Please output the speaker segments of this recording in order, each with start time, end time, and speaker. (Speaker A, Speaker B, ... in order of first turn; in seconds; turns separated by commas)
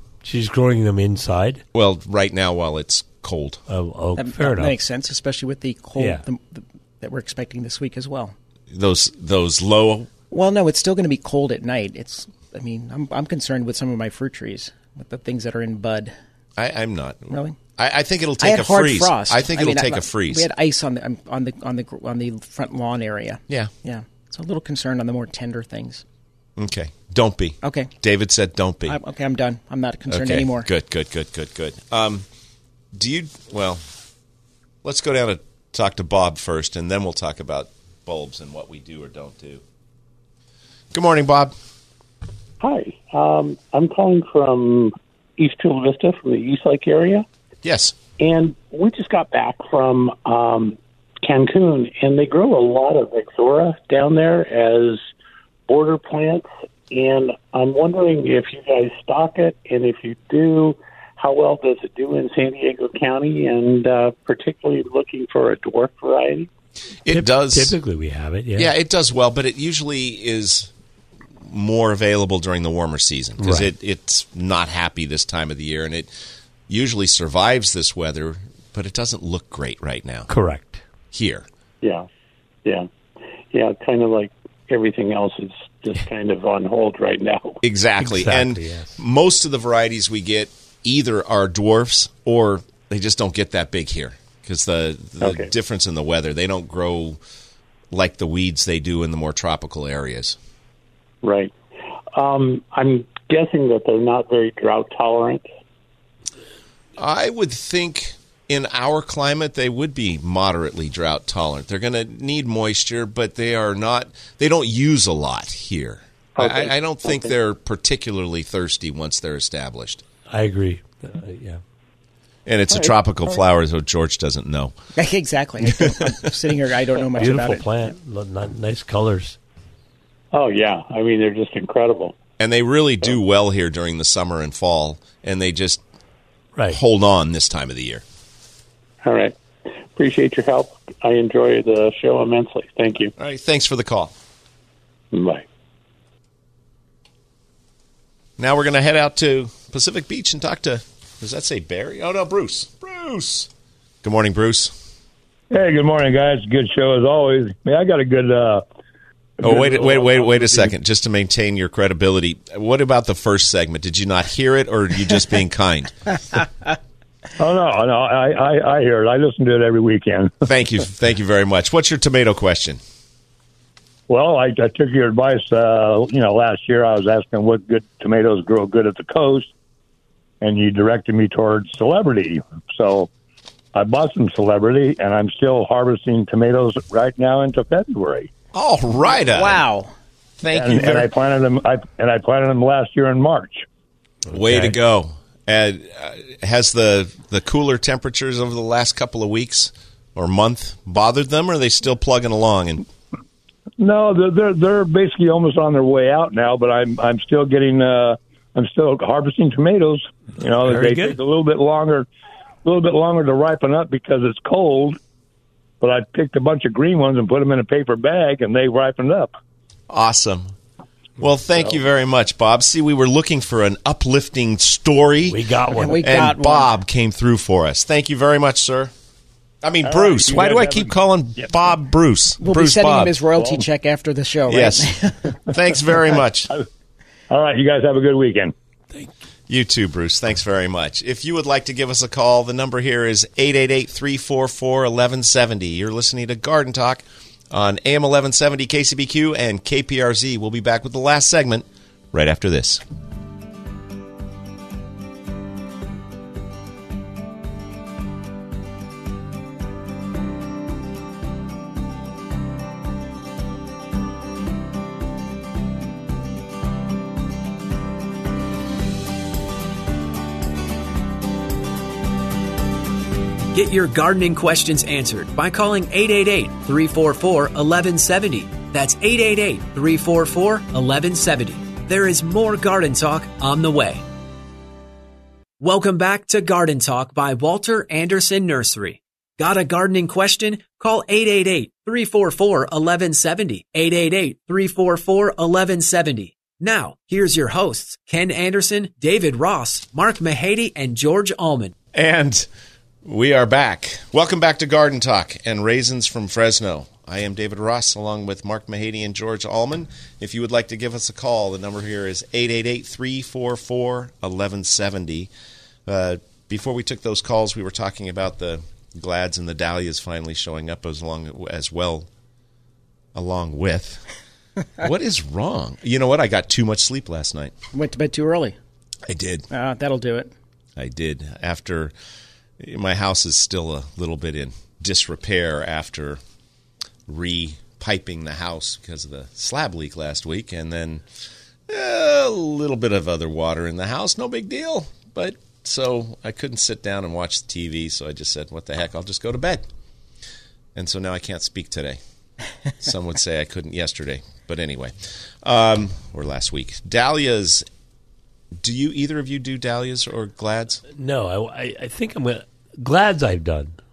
Speaker A: 0.2-1.6, Speaker B: 1.7-3.6, Speaker A: 3.7-4.8, Speaker C: 4.2-8.3, Speaker A: 6.0-6.2, Speaker B: 8.7-10.1, Speaker C: 10.3-16.1, Speaker B: 16.6-20.5, Speaker C: 17.3-17.6, Speaker C: 18.4-26.0, Speaker B: 26.6-29.0, Speaker C: 27.6-27.9, Speaker C: 28.9-30.7, Speaker B: 30.1-32.3, Speaker B: 32.9-33.8, Speaker B: 34.8-39.6, Speaker B: 40.9-41.5, Speaker D: 42.6-47.3, Speaker B: 47.6-48.0, Speaker D: 48.2-55.0, Speaker D: 55.7-66.5, Speaker B: 67.1-67.8, Speaker A: 67.1-68.7, Speaker B: 68.6-70.7, Speaker B: 71.4-76.1, Speaker A: 73.4-73.7, Speaker B: 76.7-80.3, Speaker A: 80.3-80.8, Speaker B: 81.1-81.5, Speaker D: 83.5-87.6, Speaker B: 87.6-97.2, Speaker A: 88.0-89.0, Speaker D: 95.2-95.5, Speaker B: 97.9-100.4, Speaker D: 101.2-101.5, Speaker D: 102.2-105.5, Speaker B: 107.0-120.0, Speaker D: 116.4-117.3, Speaker A: 120.3-121.6, Speaker B: 122.5-124.7, Speaker C: 125.0-127.9, Speaker B: 125.9-126.2, Speaker A: 127.2-129.4, Speaker D: 130.3-132.2, Speaker B: 132.4-135.8, Speaker B: 136.7-138.0, Speaker D: 139.0-139.4, Speaker D: 139.9-143.1, Speaker B: 143.2-144.1, Speaker D: 145.1-145.5, Speaker B: 148.4-153.5, Speaker B: 154.0-154.8, Speaker E: 155.5-158.6, Speaker E: 159.4-160.7, Speaker B: 159.4-166.4, Speaker E: 167.4-170.4, Speaker B: 170.5-172.8, Speaker E: 174.1-179.5, Speaker E: 180.4-183.1, Speaker E: 183.7-188.3, Speaker B: 188.5-189.6, Speaker C: 189.1-189.9, Speaker B: 190.4-191.1, Speaker E: 190.5-193.7, Speaker A: 194.3-194.7, Speaker B: 194.3-202.9, Speaker E: 203.8-212.1, Speaker A: 210.6-211.2, Speaker E: 212.6-215.0, Speaker E: 215.8-219.3, Speaker B: 219.9-220.5, Speaker B: 221.2-225.4, Speaker A: 225.3-226.0, Speaker C: 225.7-226.7, Speaker B: 226.0-228.9, Speaker B: 229.6-233.2, Speaker E: 229.8-230.9, Speaker C: 232.4-235.3, Speaker B: 234.5-236.5, Speaker E: 237.3-238.5, Speaker B: 239.5-252.8, Speaker F: 273.5-284.0, Speaker F: 285.6-301.7, Speaker B: 301.9-302.5, Speaker B: 303.1-315.3, Speaker B: 315.9-322.1, Speaker B: 323.1-324.1, Speaker B: 324.8-327.5, Speaker C: 327.7-328.6, Speaker B: 329.1-329.5, Speaker C: 329.5-330.3, Speaker B: 330.8-331.9, Speaker B: 332.6-336.2, Speaker B: 337.1-341.1, Speaker B: 341.7-349.7, Speaker B: 350.8-352.0, Speaker B: 352.8-357.7, Speaker B: 358.6-360.8, Speaker A: 360.9-363.8